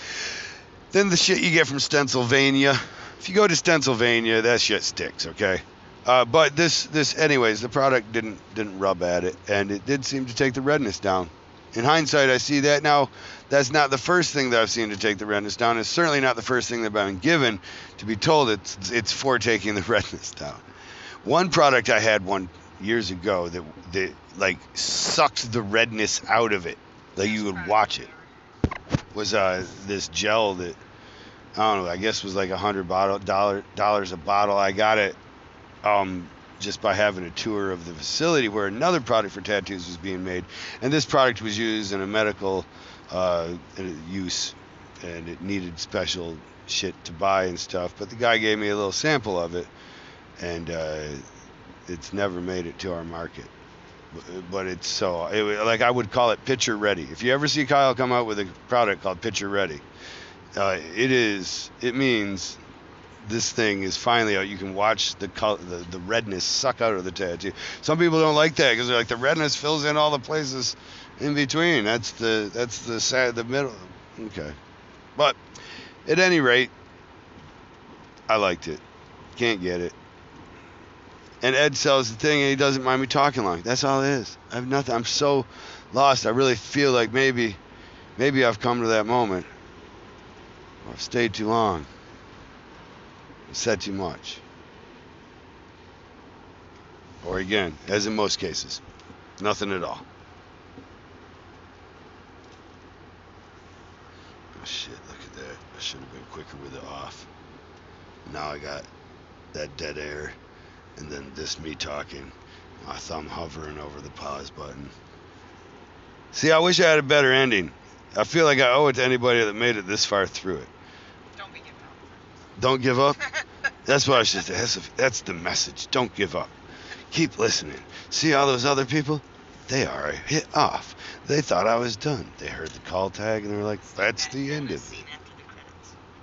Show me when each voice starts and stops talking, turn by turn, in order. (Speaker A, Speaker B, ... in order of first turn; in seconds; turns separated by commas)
Speaker A: 0.9-20.6, Speaker A: 21.2-28.1, Speaker B: 27.1-28.3, Speaker A: 29.1-30.8, Speaker A: 31.5-35.2, Speaker A: 35.8-49.7, Speaker A: 50.4-51.2, Speaker A: 51.9-53.5, Speaker A: 54.1-59.8, Speaker A: 60.5-62.6, Speaker A: 63.2-74.6, Speaker A: 76.0-76.7, Speaker A: 78.3-78.8, Speaker A: 79.3-79.9, Speaker A: 81.4-87.6, Speaker A: 88.2-89.5, Speaker A: 90.8-91.9, Speaker A: 93.5-94.4, Speaker A: 97.2-98.8, Speaker A: 99.4-100.0, Speaker A: 104.5-107.3, Speaker A: 108.2-108.9, Speaker A: 109.5-110.3, Speaker A: 111.0-114.9, Speaker A: 116.3-120.7, Speaker B: 121.3-122.2, Speaker A: 122.6-123.2, Speaker A: 123.8-126.5, Speaker A: 127.1-135.0, Speaker B: 133.8-135.9